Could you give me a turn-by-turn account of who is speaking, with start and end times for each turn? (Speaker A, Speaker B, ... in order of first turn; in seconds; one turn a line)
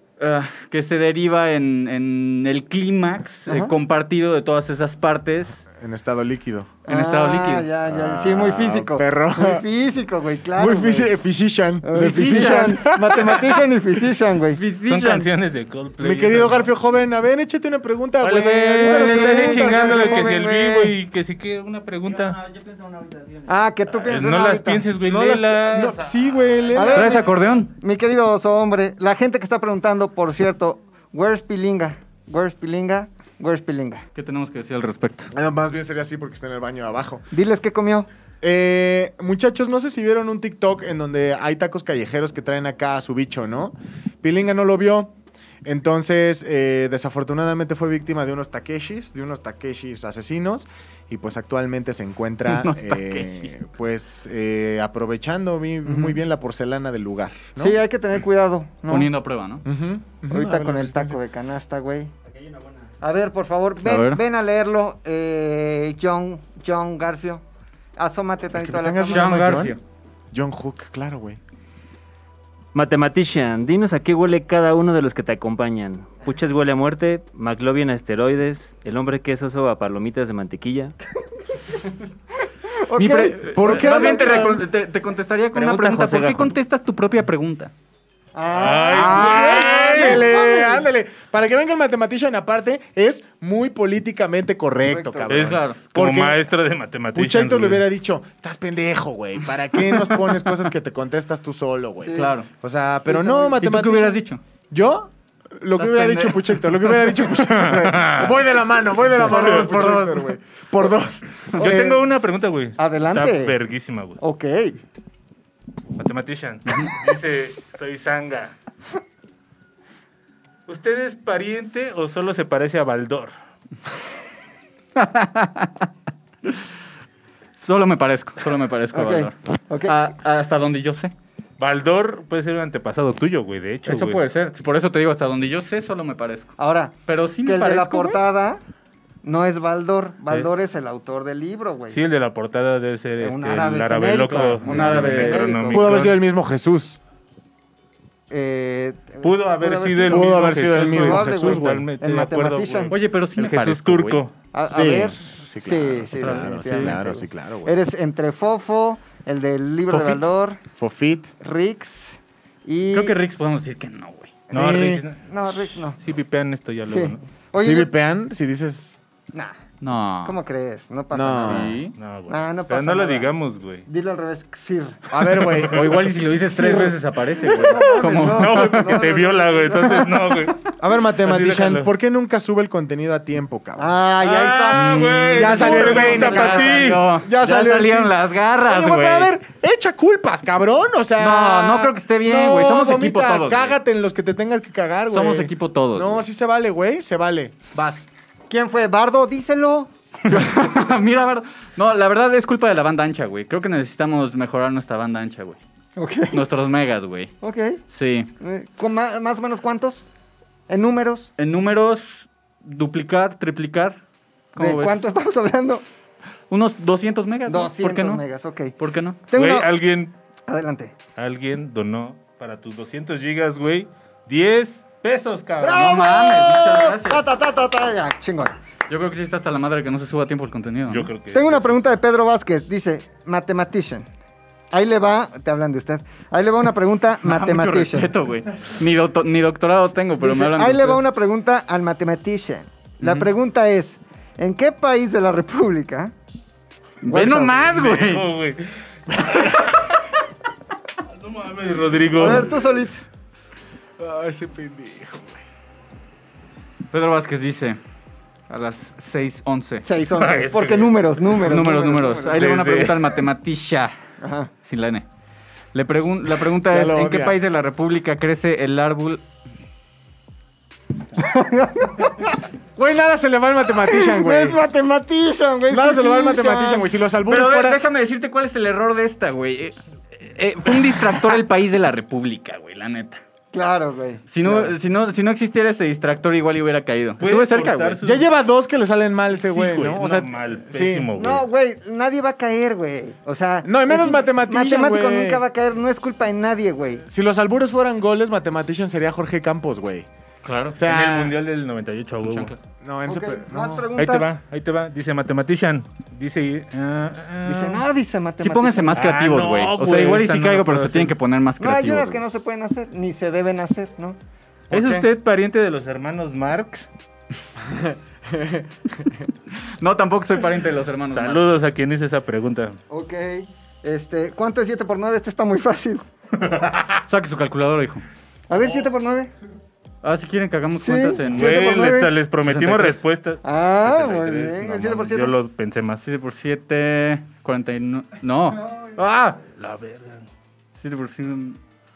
Speaker A: 0.2-5.6
Speaker B: 3.5-3.8
Speaker C: 5.8-6.7
Speaker B: 6.9-11.1
Speaker A: 6.9-7.7
Speaker C: 7.9-9.6
Speaker C: 10.6-13.7
Speaker B: 11.8-14.6
Speaker A: 12.1-12.7
Speaker A: 14.6-15.3
Speaker D: 14.8-16.7
Speaker C: 16.0-20.3
Speaker D: 18.2-22.5
Speaker B: 18.8-20.9
Speaker B: 23.4-24.9
Speaker D: 24.0-26.7
Speaker C: 25.0-27.2
Speaker B: 26.7-34.0
Speaker A: 26.9-27.7
Speaker A: 34.1-35.3
Speaker C: 35.3-37.3
Speaker B: 37.3-38.1
Speaker C: 38.4-45.1
Speaker C: 45.6-57.8
Speaker A: 52.5-53.5
Speaker B: 55.9-56.2
Speaker B: 57.6-59.1
Speaker A: 58.9-59.6
Speaker C: 59.6-61.2
Speaker B: 60.3-62.1
Speaker B: 63.0-67.4
Speaker A: 63.8-64.2
Speaker B: 68.0-69.6
Speaker C: 68.5-69.8
Speaker A: 69.1-69.8
Speaker C: 70.3-71.4
Speaker E: 72.7-81.0
Speaker B: 82.7-84.6
Speaker A: 83.0-87.7
Speaker C: 83.5-84.6
Speaker E: 85.6-86.4
Speaker B: 88.3-90.8
Speaker D: 88.5-90.2
Speaker C: 88.9-96.4
Speaker A: 89.0-89.9
Speaker B: 94.8-95.5
Speaker D: 95.3-97.9
Speaker A: 95.3-95.8
Speaker C: 97.1-104.2
Speaker B: 102.0-102.3
Speaker A: 102.1-102.5
Speaker B: 103.1-103.6
Speaker A: 103.6-104.4
Speaker C: 104.7-111.9
Speaker A: 105.8-106.9
Speaker D: 107.3-108.4
Speaker A: 109.1-110.3
Speaker D: 109.2-109.9
Speaker D: 111.6-114.2
Speaker B: 111.6-112.0
Speaker B: 112.8-113.5
Speaker B: 114.2-114.8
Speaker D: 116.0-118.5
Speaker D: 120.7-123.3
Speaker A: 125.0-125.9
Speaker A: 127.6-131.1
Speaker B: 128.9-129.9
Speaker D: 131.6-134.2
Speaker A: 133.9-136.6
Speaker B: 136.6-138.6
Speaker A: 137.1-138.2
Speaker B: 139.2-142.0
Speaker D: 141.9-146.2
Speaker B: 143.2-146.0
Speaker A: 144.3-145.6
Speaker C: 145.7-147.0
Speaker B: 148.3-152.9
Speaker D: 149.2-154.3
Speaker C: 150.1-151.9
Speaker A: 152.9-154.2
Speaker B: 154.5-160.6
Speaker C: 154.7-157.8
Speaker A: 156.2-157.0
Speaker C: 159.9-160.2
Speaker C: 160.8-161.3
Speaker B: 161.4-163.1
Speaker A: 162.9-164.3
Speaker B: 164.5-166.0
Speaker D: 164.5-167.2
Speaker C: 164.5-165.0
Speaker B: 166.9-167.9
Speaker C: 167.6-169.0
Speaker A: 169.8-170.4
Speaker B: 170.2-173.3
Speaker C: 171.1-171.8
Speaker A: 171.4-171.9
Speaker D: 172.0-173.8
Speaker B: 173.9-175.0
Speaker C: 175.1-176.9
Speaker D: 175.4-175.9
Speaker A: 175.6-179.0
Speaker B: 176.6-176.9
Speaker B: 177.4-180.5
Speaker D: 177.8-181.9
Speaker C: 180.8-184.0
Speaker B: 183.8-186.5
Speaker D: 184.2-187.1
Speaker A: 184.7-189.3
Speaker C: 185.3-198.1
Speaker A: 191.2-193.8
Speaker A: 195.1-196.2
Speaker B: 198.5-199.9
Speaker A: 200.3-205.6
Speaker B: 206.0-206.4
Speaker A: 206.3-207.3
Speaker B: 207.4-207.8
Speaker A: 207.9-208.3
Speaker B: 208.4-210.0
Speaker B: 210.7-211.3
Speaker A: 211.4-214.0
Speaker A: 214.6-215.0
Speaker B: 214.6-215.8
Speaker A: 216.5-218.2
Speaker B: 217.5-218.7
Speaker A: 218.8-219.2
Speaker B: 219.3-219.7
Speaker D: 219.3-220.1
Speaker B: 220.5-220.9
Speaker D: 221.2-226.1
Speaker B: 225.6-228.6
Speaker A: 225.7-227.2
Speaker A: 228.9-231.1
Speaker D: 230.9-231.8
Speaker B: 231.3-234.1
Speaker B: 234.7-238.1
Speaker A: 237.2-241.0
Speaker B: 240.2-246.1
Speaker A: 243.0-243.3
Speaker A: 247.0-248.3
Speaker B: 247.1-247.6
Speaker D: 247.3-249.8
Speaker D: 251.1-252.6
Speaker B: 252.2-253.0
Speaker C: 254.0-255.4
Speaker A: 256.9-257.8
Speaker A: 258.5-259.9
Speaker B: 259.9-262.4
Speaker D: 260.1-261.4
Speaker A: 261.4-263.9
Speaker D: 262.3-263.1
Speaker B: 264.2-264.5
Speaker A: 264.6-265.1
Speaker A: 265.7-269.2
Speaker C: 266.7-267.4
Speaker B: 271.2-272.4
Speaker C: 272.8-274.6
Speaker B: 273.9-276.9
Speaker C: 275.7-277.8
Speaker A: 277.3-283.2
Speaker B: 283.5-284.7
Speaker A: 284.3-288.0
Speaker D: 287.2-288.3
Speaker C: 288.0-291.1
Speaker D: 289.3-291.5
Speaker B: 291.2-297.0
Speaker C: 293.6-295.4
Speaker C: 297.1-300.1
Speaker A: 300.4-300.8
Speaker C: 300.8-301.4
Speaker D: 300.8-302.5
Speaker A: 302.2-302.5
Speaker C: 302.8-303.9
Speaker B: 303.1-304.3
Speaker D: 304.0-307.9
Speaker B: 307.4-309.0
Speaker A: 308.4-312.2
Speaker D: 309.0-311.1
Speaker B: 311.6-314.2
Speaker C: 314.7-315.1
Speaker D: 314.7-316.9
Speaker C: 317.6-318.7
Speaker A: 319.8-321.4
Speaker D: 321.1-322.8
Speaker B: 322.9-326.1
Speaker D: 326.5-327.0
Speaker A: 327.1-328.1
Speaker B: 328.5-329.3
Speaker A: 330.0-331.6
Speaker B: 330.8-332.1
Speaker D: 331.3-336.0
Speaker A: 332.4-333.0
Speaker B: 333.4-335.3
Speaker A: 336.0-339.4
Speaker D: 339.6-340.3
Speaker A: 340.8-341.6